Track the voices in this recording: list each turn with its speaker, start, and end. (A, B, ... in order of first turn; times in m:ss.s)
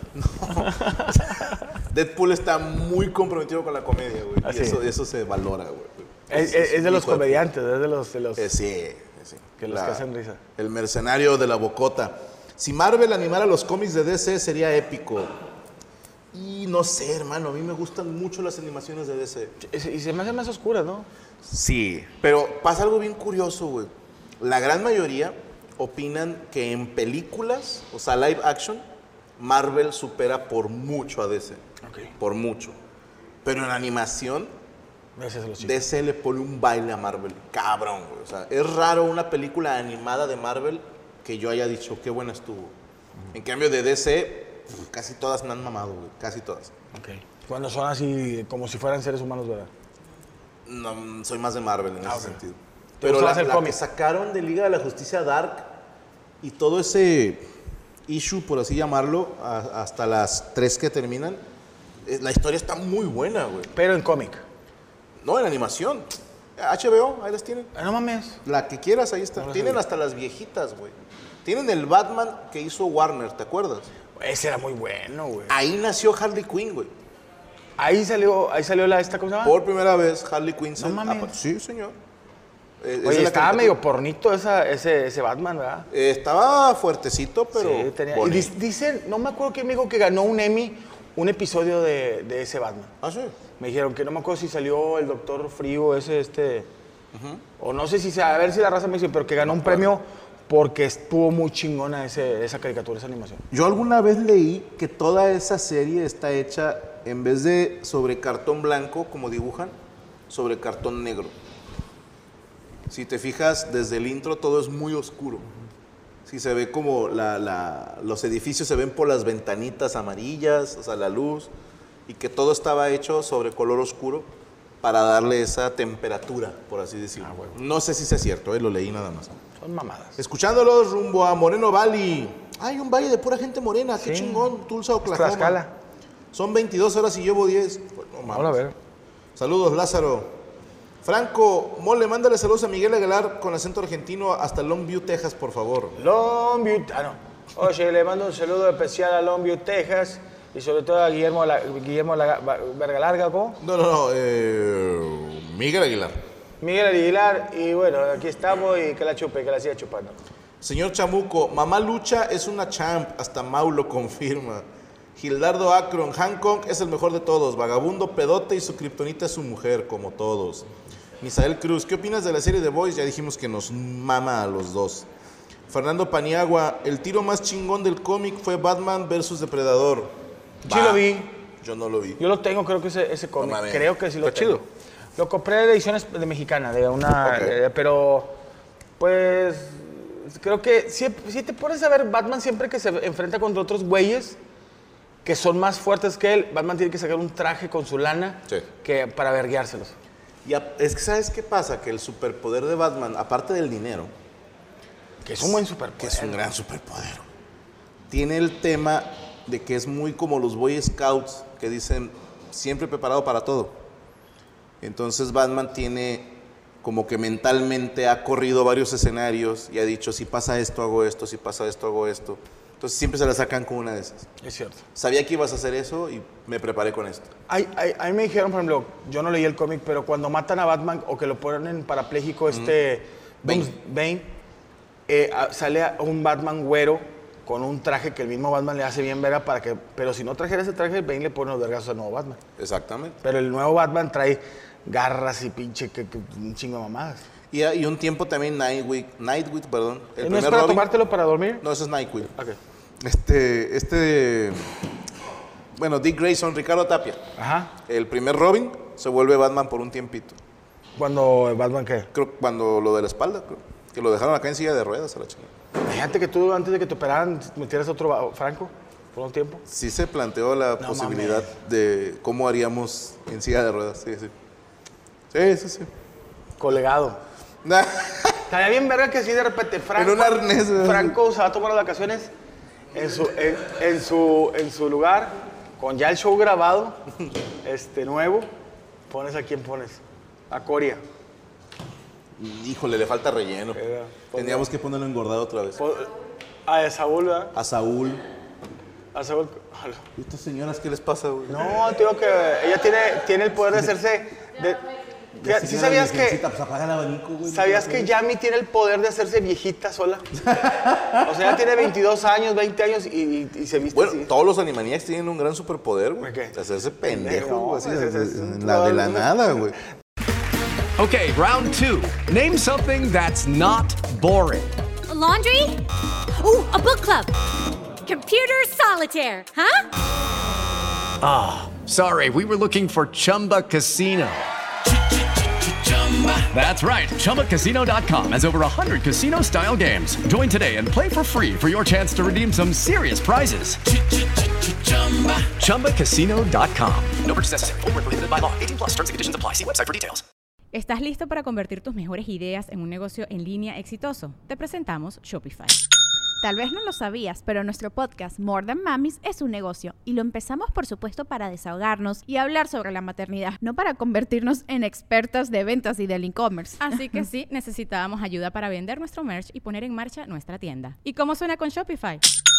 0:00.1-0:07.4 A
0:00.6-0:01.6 B
0:04.4-0:04.8 B
0:06.3-0:08.5 B
0:08.4-0:10.0 A
0:09.6-0:10.4 B
0:10.6-0:15.3 A
0:16.3-0:19.6 A
0:19.6-0:21.1 B
0:21.4-0:28.8 A
0:29.4-0:31.6 A
0:31.8-0:32.1 B
0:32.2-0:32.8 A
0:33.4-0:34.5 A
0:35.2-0:35.8 B
0:35.6-0:42.7 A
0:43.3-0:46.7 A
0:46.9-0:49.7 B
0:50.6-0:55.8 A
0:52.0-0:52.4 B
0:53.0-0:53.8 B
0:56.4-0:57.5 A
0:58.1-1:01.4 A
1:02.0-1:03.7 A
1:03.7-1:04.4 B
1:05.2-1:07.7 A
1:07.7-1:08.4 B
1:08.4-1:10.9 A
1:09.4-1:09.8 B
1:11.4-1:13.9 A
1:14.2-1:15.5 B
1:15.5-1:16.9 A
1:17.8-1:19.6 B
1:19.4-1:22.0 A
1:20.8-1:21.4 B
1:22.8-1:23.8 A
1:23.0-1:25.9 B
1:25.9-1:28.5 A
1:27.5-1:32.9 B
1:33.0-1:33.3 A
1:33.6-1:36.7 B
1:37.1-1:37.4 A
1:37.6-1:43.4 B
1:39.4-1:39.9 A
1:43.5-1:49.7 A
1:50.3-1:51.3 A
1:52.9-1:55.5 A
1:56.2-2:01.5 A
2:02.1-2:04.3 A
2:04.8-2:09.3 A
2:07.2-2:07.6 B
2:09.6-2:10.2 B
2:10.2-2:15.6 A
2:14.0-2:15.7 B
2:16.3-2:18.6 A
2:18.3-2:18.7 B
2:19.4-2:20.4 A
2:21.0-2:26.0 A
2:26.0-2:33.6 B
2:33.6-2:36.2 A
2:36.6-2:40.2 B
2:40.6-2:44.6 A
2:45.2-2:50.7 A
2:51.2-2:55.0 A
2:55.7-3:00.1 A
3:00.6-3:01.0 A
3:00.6-3:01.3 B
3:01.6-3:02.2 A
3:02.2-3:04.6 B
3:03.4-3:04.6 A
3:05.2-3:08.4 B
3:07.2-3:07.5 A
3:09.0-3:14.4 B
3:15.2-3:19.9 B
3:20.4-3:24.1 A
3:25.2-3:26.4 B
3:25.4-3:27.3 A
3:28.1-3:33.8 A
3:34.8-3:44.3 A
3:44.4-3:44.8 B
3:44.9-3:47.3 A
3:47.5-3:54.3 B
3:52.5-3:52.8 A
3:53.4-3:53.7 A
3:55.1-4:02.4 B
4:02.6-4:03.2 A
4:03.2-4:07.2 B
4:07.5-4:10.9 A
4:10.2-4:11.6 B
4:11.6-4:12.3 A
4:13.0-4:14.7 A
4:15.7-4:17.2 A
4:17.4-4:17.7 B
4:17.8-4:20.4 A
4:21.0-4:22.1 B
4:22.1-4:25.5 A
4:25.8-4:29.6 B
4:29.7-4:34.3 A
4:30.8-4:31.5 B
4:35.3-4:35.9 A
4:36.6-4:37.2 B
4:37.6-4:38.4 A
4:38.5-4:42.3 B
4:39.9-4:41.2 A
4:42.9-4:47.0 B
4:47.6-4:48.5 B
4:49.1-4:51.0 B
4:52.4-4:55.8 A
4:53.7-4:54.7 B
4:55.8-4:56.1 B
4:56.6-4:57.5 B
4:57.5-4:58.2 A
4:59.1-5:00.1 B
5:00.2-5:01.8 A
5:01.5-5:04.9 B
5:05.4-5:08.1 A
5:05.4-5:06.4 B
5:07.4-5:10.3 B
5:10.4-5:11.3 A
5:11.2-5:14.3 B
5:13.9-5:19.8 A
5:16.2-5:19.6 B
5:21.0-5:24.8 C
5:25.1-5:27.3 D
5:28.0-5:29.8 D
5:31.2-5:34.4 C
5:35.7-5:50.2 C
5:50.7-5:55.8 E
5:56.4-6:07.0 F
6:06.8-6:12.2 E